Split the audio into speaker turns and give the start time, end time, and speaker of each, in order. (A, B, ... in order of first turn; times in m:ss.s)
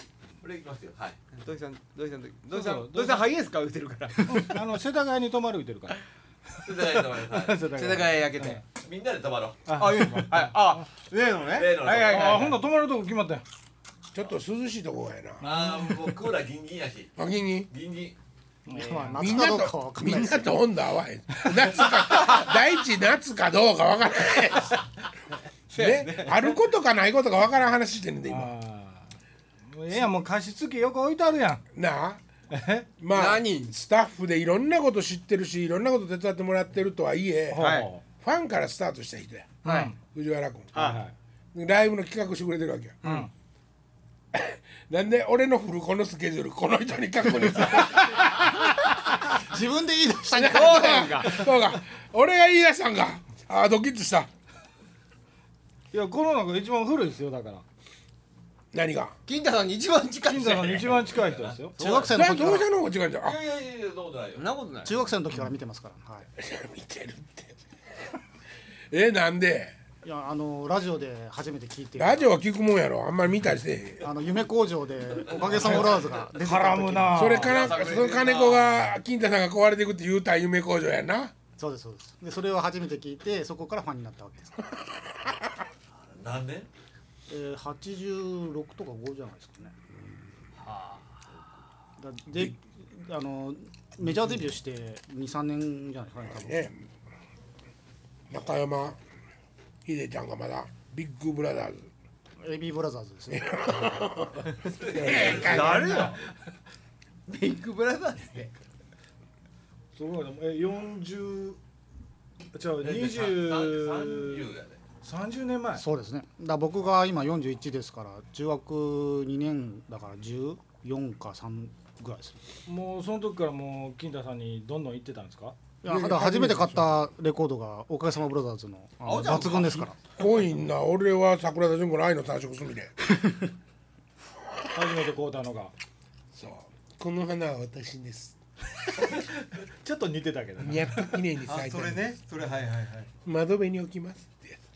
0:00.4-0:01.2 A
0:01.3-0:04.6 B
0:02.5-0:03.3 C
0:04.3-0:06.0 C
0:06.6-0:07.7 A
0:07.2-0:08.6 C
0:07.7-0:08.6 B
0:08.7-0:09.7 A
0:09.7-0:10.6 C
0:09.7-0:12.6 B
0:11.5-0:12.6 A
0:12.0-0:13.4 C
0:14.1-0:15.4 D
0:15.4-0:16.0 C
0:15.4-0:17.1 A
0:17.2-0:17.7 D
0:17.7-0:18.2 A
0:18.7-0:19.5 C
0:18.7-0:20.6 E
0:19.1-0:24.8 D
0:25.7-0:26.6 B
0:25.7-0:28.5 D
0:28.3-0:29.1 C
0:29.7-0:31.6 C
0:31.7-0:32.2 D
0:32.5-0:32.9 C
0:33.0-0:40.7 D
0:33.1-0:33.7 B
0:37.5-0:38.0 C
0:37.5-0:37.9 B
0:39.6-0:39.9 B
0:39.6-0:40.0 C
0:40.7-0:41.0 B
0:40.7-0:41.1 C
0:41.5-0:43.0 D
0:43.0-0:43.3 B
0:43.0-0:43.3 C
0:44.3-0:48.7 D
0:49.3-0:51.5 E
0:50.3-0:54.3 D
0:50.4-0:51.5 B
0:55.9-0:57.6 C
0:58.7-0:59.1 D
0:59.3-1:01.0 B
1:00.2-1:02.0 C
1:00.7-1:01.6 A
1:01.8-1:02.2 B
1:01.8-1:02.7 E
1:02.1-1:03.4 D
1:03.2-1:04.5 A
1:04.3-1:05.0 B
1:04.8-1:06.3 E
1:06.4-1:07.6 D
1:08.9-1:09.7 D
1:10.0-1:12.3 E
1:12.0-1:14.1 D
1:14.0-1:17.4 E
1:15.6-1:17.6 C
1:15.6-1:15.9 D
1:17.1-1:21.3 D
1:17.4-1:18.4 A
1:17.5-1:18.8 B
1:21.6-1:24.7 E
1:25.9-1:26.7 A
1:27.3-1:29.8 E
1:30.6-1:31.1 B
1:32.0-1:36.7 E
1:36.3-1:36.8 D
1:38.3-1:39.0 D
1:39.8-1:41.9 D
1:42.4-1:44.1 E
1:43.3-1:46.1 D
1:44.6-1:46.2 A
1:45.1-1:46.3 B
1:47.3-1:48.5 B
1:49.9-1:51.6 C
1:52.5-1:55.8 C
1:52.8-1:54.8 A
1:55.7-2:02.4 E
2:02.7-2:05.6 C
2:05.8-2:10.0 E
2:05.9-2:07.0 D
2:09.0-2:09.9 B
2:10.2-2:13.1 D
2:14.7-2:15.7 C
2:16.3-2:18.3 D
2:19.0-2:21.2 C
2:20.6-2:22.1 D
2:21.4-2:23.1 B
2:23.2-2:24.6 D